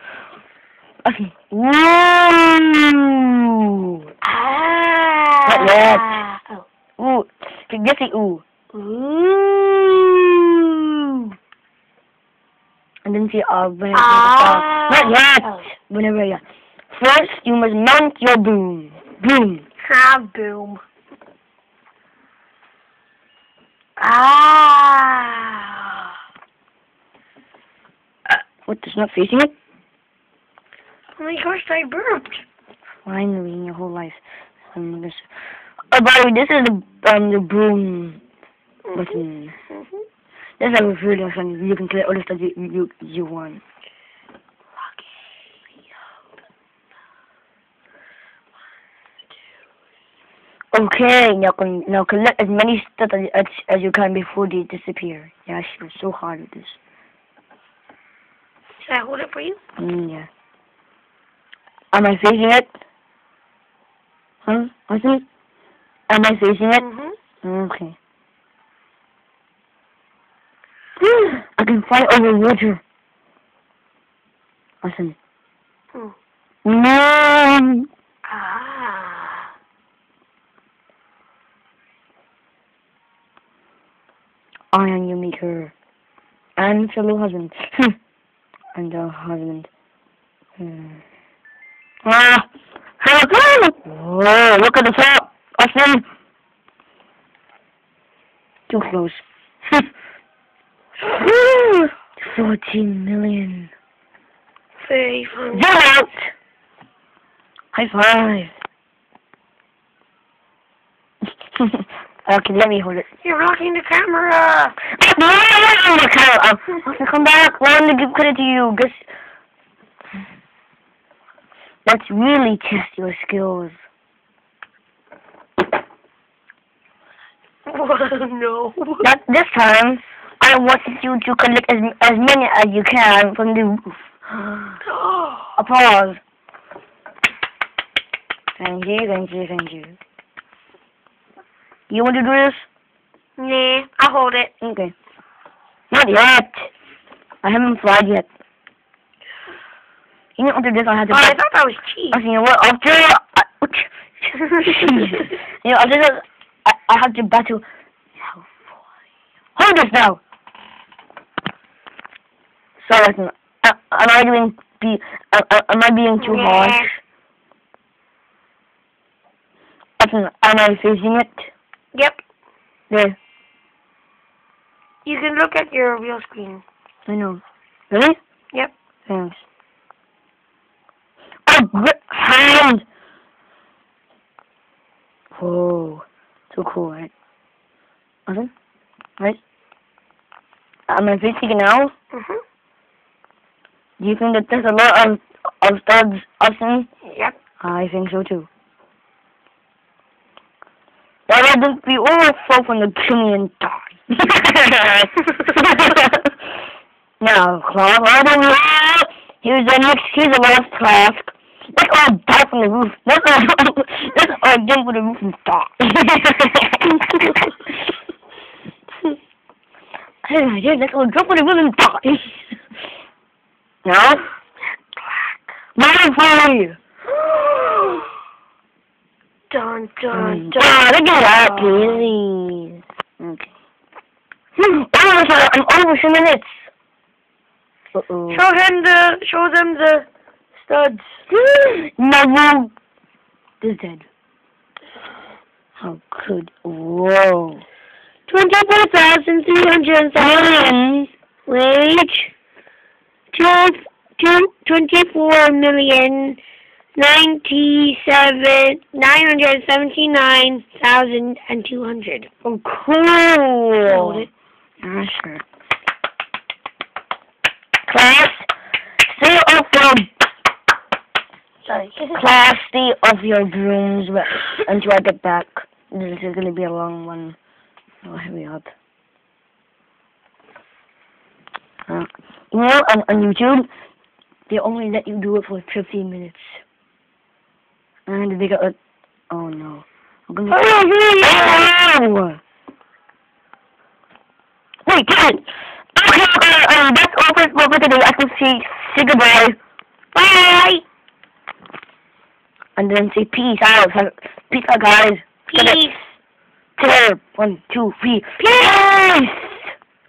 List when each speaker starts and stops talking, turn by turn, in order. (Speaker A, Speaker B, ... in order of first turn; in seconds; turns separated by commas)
Speaker A: 1.0-4.0, Speaker B: 4.2-6.6, Speaker A: 5.5-6.2, Speaker A: 7.0-8.4, Speaker B: 8.7-11.3, Speaker A: 13.1-19.6, Speaker B: 13.9-15.7, Speaker B: 19.8-20.8, Speaker B: 24.0-26.1, Speaker A: 28.3-29.5, Speaker B: 31.2-32.4, Speaker A: 33.0-34.2, Speaker A: 34.7-35.3, Speaker A: 35.9-38.2, Speaker B: 38.9-39.2, Speaker A: 38.9-39.5, Speaker B: 39.7-40.0, Speaker A: 40.6-43.6, Speaker B: 44.8-45.1, Speaker A: 50.7-56.8, Speaker B: 58.8-59.6, Speaker A: 59.8-60.3, Speaker A: 61.9-62.7, Speaker A: 64.4-65.2, Speaker A: 66.1-66.8, Speaker B: 66.8-67.2, Speaker A: 67.4-68.0, Speaker A: 71.0-72.8, Speaker A: 74.8-75.2, Speaker A: 76.6-77.9, Speaker B: 78.2-79.5, Speaker A: 84.7-85.7, Speaker A: 86.6-88.0, Speaker A: 88.8-89.7, Speaker A: 90.6-91.0, Speaker A: 92.0-92.5, Speaker A: 93.0-96.1, Speaker A: 98.7-99.9, Speaker A: 101.0-103.7, Speaker B: 104.8-105.7, Speaker A: 105.5-106.3, Speaker A: 107.7-108.5, Speaker A: 111.6-113.1, Speaker B: 113.2-114.8, Speaker A: 114.8-119.1, Speaker A: 121.9-123.8, Speaker B: 127.7-129.1, Speaker A: 129.0-134.8, Speaker B: 134.8-135.6, Speaker A: 135.6-136.2, Speaker A: 138.6-140.0, Speaker A: 141.9-142.7, Speaker B: 143.4-144.5, Speaker A: 144.6-144.9, Speaker A: 145.9-146.7, Speaker A: 147.4-148.3, Speaker A: 150.4-151.4, Speaker B: 151.1-152.2, Speaker A: 152.1-157.6, Speaker B: 154.3-155.4, Speaker A: 158.2-158.6, Speaker A: 159.6-160.2, Speaker A: 162.8-167.0, Speaker B: 166.2-166.9, Speaker A: 170.0-171.5, Speaker B: 171.9-172.2, Speaker A: 172.9-173.2, Speaker B: 175.1-176.6, Speaker A: 177.1-178.2, Speaker A: 179.1-179.4, Speaker A: 181.5-182.8, Speaker A: 185.3-187.1, Speaker A: 188.3-188.5, Speaker A: 190.9-191.9, Speaker B: 192.1-192.4, Speaker A: 194.0-196.9, Speaker B: 197.1-197.4, Speaker A: 197.6-198.5, Speaker A: 201.3-206.3, Speaker A: 207.2-217.7, Speaker A: 220.2-222.4, Speaker A: 223.8-224.3, Speaker B: 225.0-225.3, Speaker A: 225.8-226.8, Speaker B: 227.1-228.1, Speaker B: 229.5-232.1, Speaker A: 230.1-233.5, Speaker A: 234.6-236.7, Speaker A: 237.9-238.5, Speaker B: 238.3-241.2, Speaker A: 241.3-242.7, Speaker A: 243.6-244.1, Speaker A: 245.8-247.6, Speaker B: 248.3-250.8, Speaker A: 250.2-251.1, Speaker B: 251.5-252.3, Speaker B: 253.3-256.4, Speaker B: 257.0-262.3, Speaker A: 262.4-264.3, Speaker B: 263.9-264.3, Speaker A: 264.8-265.4, Speaker A: 267.9-268.5, Speaker A: 269.0-270.1, Speaker B: 271.6-272.2, Speaker A: 272.1-277.4, Speaker A: 278.0-278.7, Speaker A: 281.9-283.7, Speaker A: 284.5-286.6, Speaker A: 288.1-288.8, Speaker A: 289.3-292.4, Speaker B: 290.5-291.7, Speaker A: 294.9-299.6, Speaker B: 300.1-300.8, Speaker A: 302.8-305.9, Speaker B: 305.5-306.1, Speaker A: 306.8-309.7, Speaker B: 308.4-308.9